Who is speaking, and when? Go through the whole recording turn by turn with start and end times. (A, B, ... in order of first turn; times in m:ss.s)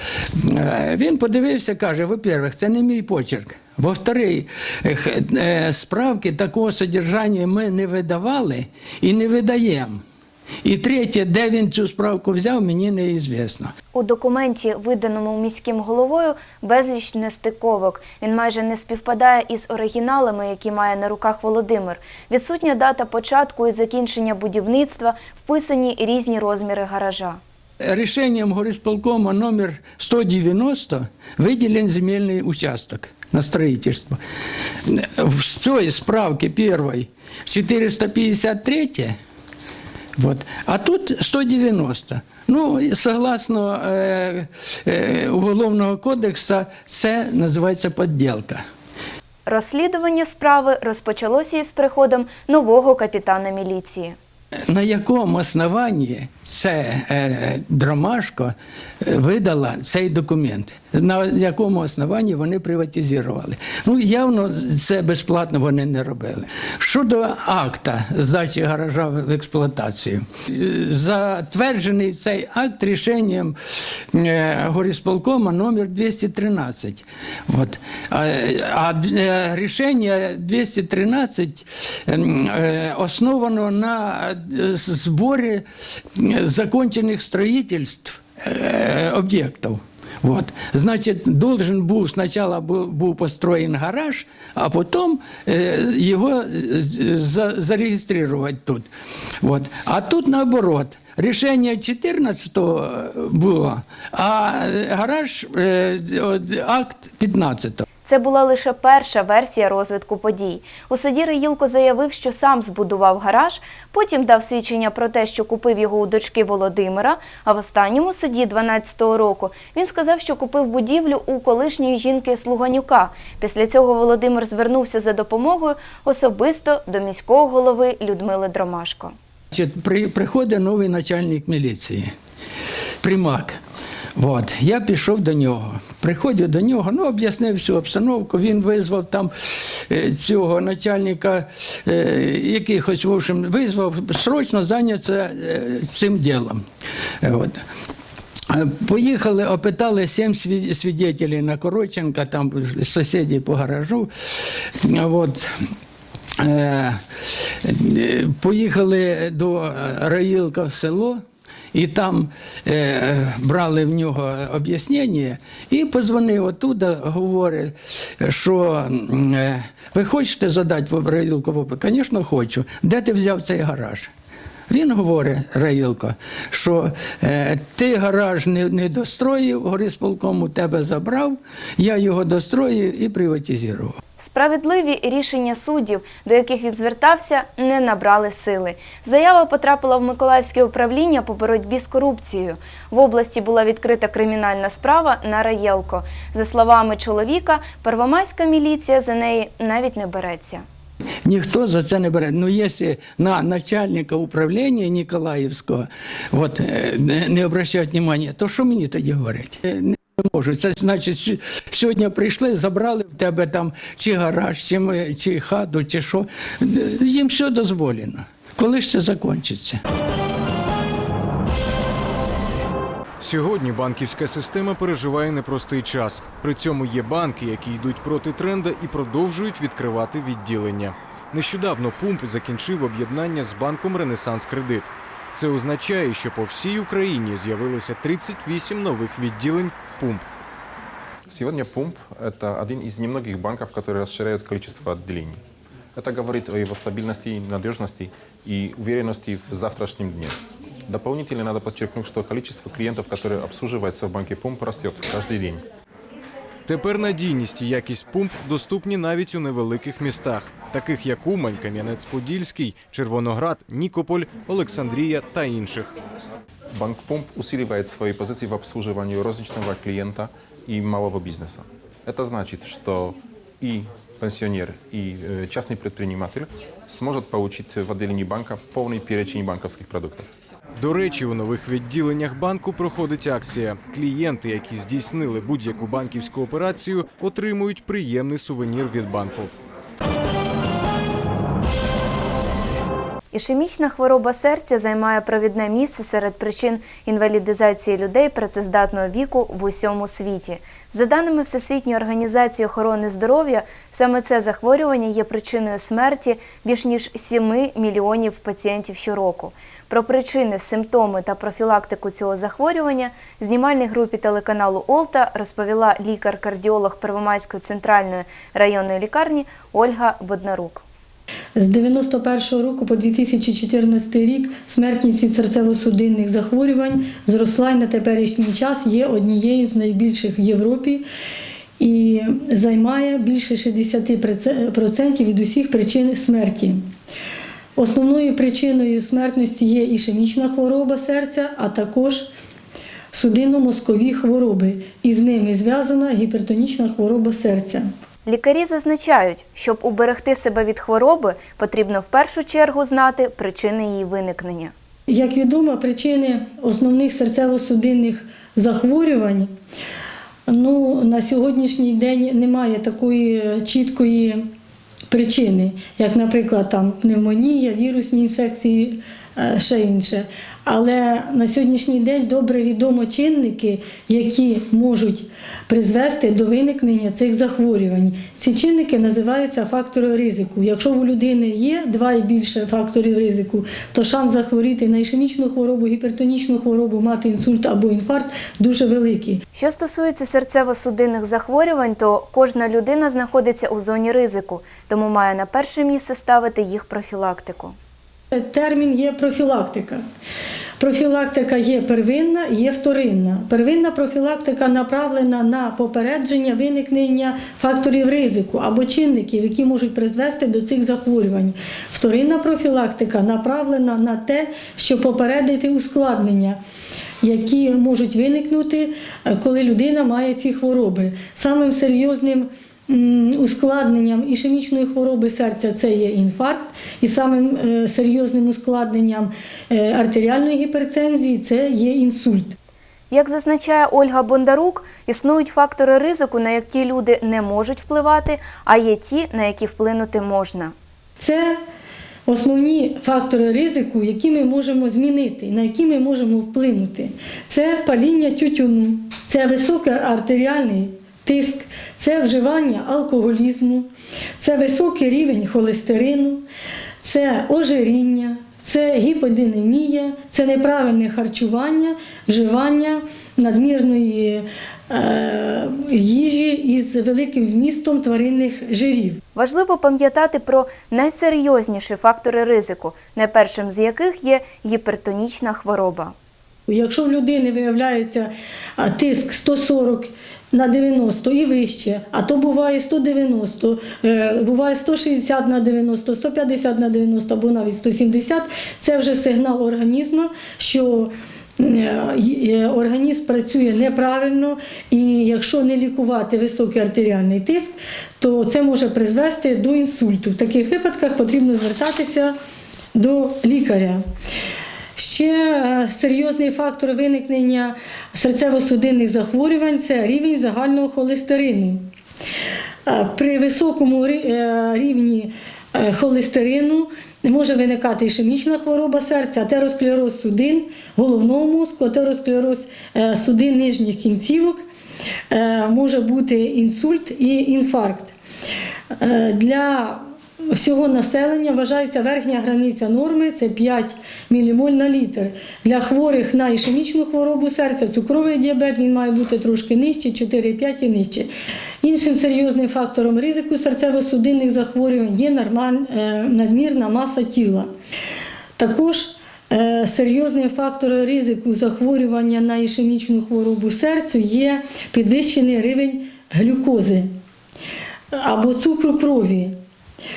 0:00.3-0:10.0 A
0:10.6-0:13.7 A
0:13.9-0:27.4 B
0:27.8-0:34.2 A
0:34.8-0:39.2 A
0:40.2-0:48.6 A
0:49.5-0:54.2 B
0:54.7-1:25.6 A
1:26.2-1:38.9 A
1:39.4-1:47.8 A
1:48.0-2:09.1 B
2:09.5-2:12.1 A
2:13.0-2:13.6 A
2:14.2-2:26.6 A
2:27.2-2:27.6 A
2:28.5-2:35.7 A
2:36.4-2:54.1 A
2:54.7-3:04.0 A
3:04.2-3:20.6 B
3:21.2-3:39.8 A
3:43.2-4:00.2 C
4:01.3-4:05.4 D
4:06.0-4:15.6 D
4:16.6-4:25.9 C
4:26.7-4:40.3 D
4:40.8-4:49.5 C
4:53.3-5:20.8 B
5:21.6-5:31.0 E
5:31.8-5:36.8 E
5:37.8-5:42.3 E
5:43.1-5:47.8 E
5:48.2-5:54.7 B
5:55.1-5:59.5 E
6:00.5-6:04.4 E
6:05.1-6:29.4 E
6:29.5-6:37.8 B
6:38.3-6:40.0 E
6:40.8-6:56.6 E
6:57.2-7:12.6 E
7:13.1-7:20.7 B
7:21.2-7:21.6 E
7:22.3-7:33.9 E
7:34.4-7:36.4 E
7:37.0-7:49.2 E
7:49.3-7:56.1 B
7:56.7-8:22.3 E
8:22.9-8:24.0 E
8:25.0-8:31.8 E
8:32.9-8:44.6 E
8:45.3-8:48.1 E
8:48.9-8:50.0 E
8:50.5-9:01.3 E
9:01.8-9:07.7 E
9:08.6-9:17.1 E
9:18.1-9:19.5 E